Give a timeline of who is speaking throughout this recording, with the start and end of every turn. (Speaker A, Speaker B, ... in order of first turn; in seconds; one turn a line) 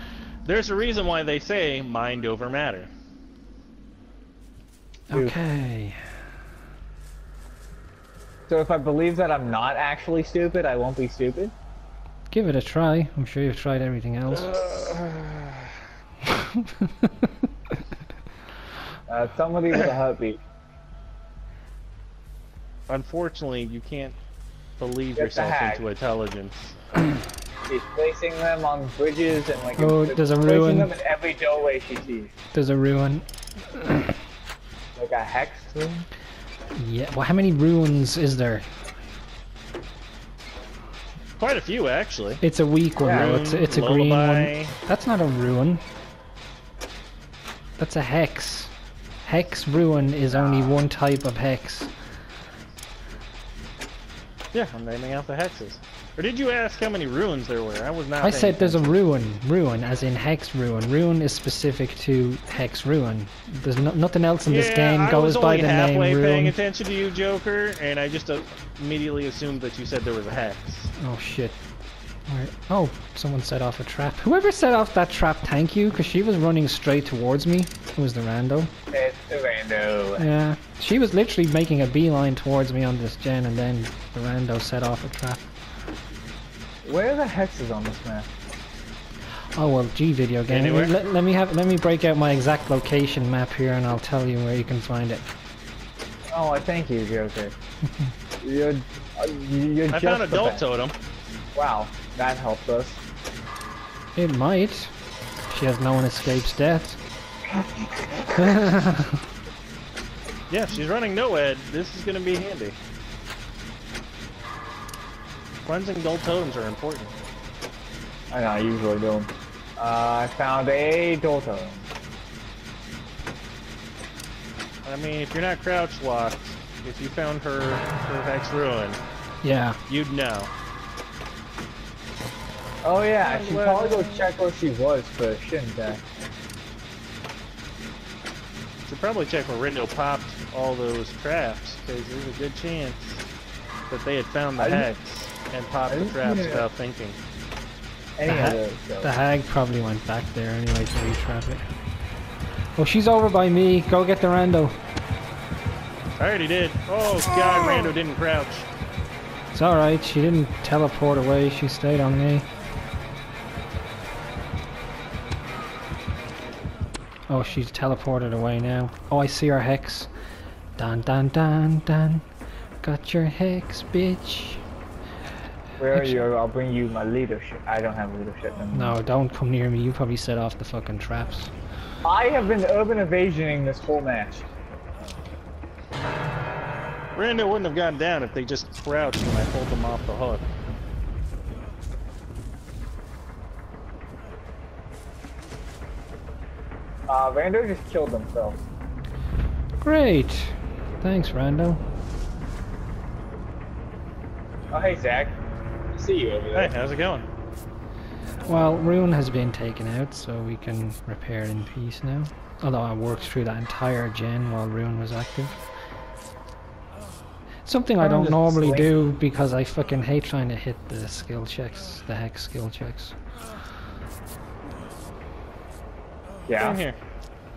Speaker A: 0.4-2.9
Speaker B: 5.1-6.0
Speaker C: 5.1-5.4
Speaker C: 8.5-11.5
Speaker B: 12.3-14.6
Speaker A: 14.5-15.7
Speaker B: 16.3-17.1
Speaker C: 19.1-20.4
Speaker A: 22.9-24.1
Speaker A: 24.8-26.7
Speaker C: 25.1-25.9
Speaker C: 27.7-32.3
Speaker B: 29.8-30.9
Speaker B: 32.5-34.1
Speaker C: 35.0-36.1
Speaker B: 36.8-38.6
Speaker A: 41.4-42.4
Speaker B: 42.4-45.8
Speaker C: 43.0-43.3
Speaker A: 43.0-44.7
Speaker B: 47.8-51.9
Speaker C: 50.3-50.8
Speaker A: 54.5-58.9
Speaker B: 58.2-66.5
Speaker A: 64.5-70.9
Speaker B: 71.0-71.6
Speaker B: 72.3-78.7
Speaker C: 78.9-80.2
Speaker B: 80.2-85.4
Speaker C: 86.8-88.3
Speaker B: 89.5-95.3
Speaker A: 90.5-90.9
Speaker C: 96.3-97.5
Speaker C: 98.4-100.6
Speaker A: 99.9-100.9
Speaker C: 101.5-103.0
Speaker B: 104.1-104.9
Speaker B: 105.5-107.0
Speaker C: 107.5-108.3
Speaker B: 108.3-109.2
Speaker A: 110.5-112.8
Speaker A: 115.7-117.1
Speaker C: 118.3-121.9
Speaker A: 124.8-129.0
Speaker B: 129.4-129.8
Speaker A: 129.9-130.5
Speaker C: 132.8-136.0
Speaker A: 133.2-134.3
Speaker A: 138.8-143.2
Speaker A: 143.9-147.2
Speaker C: 144.6-144.9
Speaker C: 145.9-146.7
Speaker C: 148.2-149.1
Speaker B: 148.2-151.6
Speaker B: 152.8-154.8
Speaker A: 156.2-158.7
Speaker B: 159.5-162.5
Speaker B: 167.3-170.1
Speaker B: 170.8-172.2
Speaker B: 172.8-174.6
Speaker C: 175.8-179.0
Speaker B: 175.9-176.2
Speaker B: 178.7-181.5
Speaker C: 182.0-184.4
Speaker A: 187.1-190.4
Speaker C: 197.1-198.6
Speaker B: 199.8-201.8
Speaker C: 204.7-205.4
Speaker C: 205.9-206.7
Speaker A: 206.5-207.3
Speaker B: 208.4-215.6
Speaker B: 217.6-223.1
Speaker C: 218.0-218.9
Speaker C: 226.5-226.8
Speaker A: 226.6-227.0